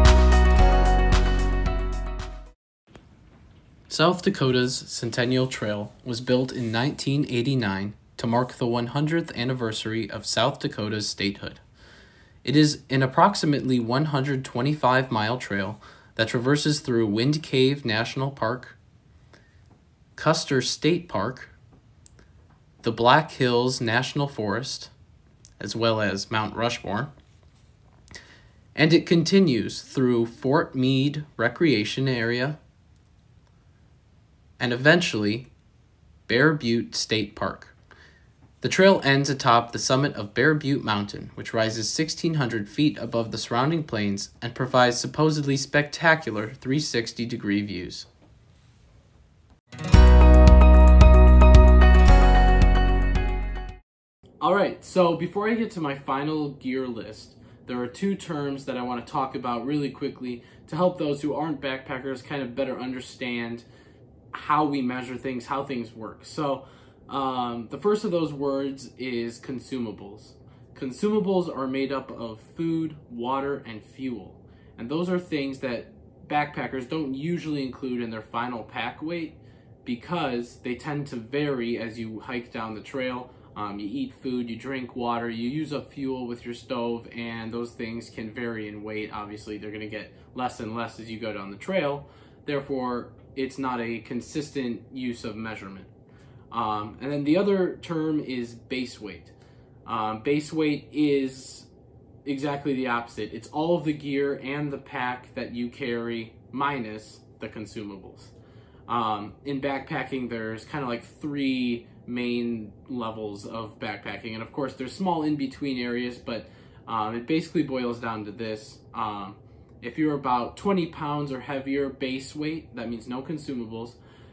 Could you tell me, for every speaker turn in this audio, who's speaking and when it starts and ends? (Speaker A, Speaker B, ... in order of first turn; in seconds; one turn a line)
Speaker A: 3.9-11.6
Speaker A: 12.4-18.8
Speaker A: 20.2-21.6
Speaker A: 22.8-24.9
Speaker A: 25.6-27.1
Speaker A: 28.8-32.6
Speaker A: 34.6-35.5
Speaker A: 36.3-37.8
Speaker A: 38.6-48.1
Speaker A: 54.4-63.7
Speaker A: 64.3-95.9
Speaker A: 96.5-99.3
Speaker A: 99.9-101.7
Speaker A: 102.2-108.3
Speaker A: 108.9-124.0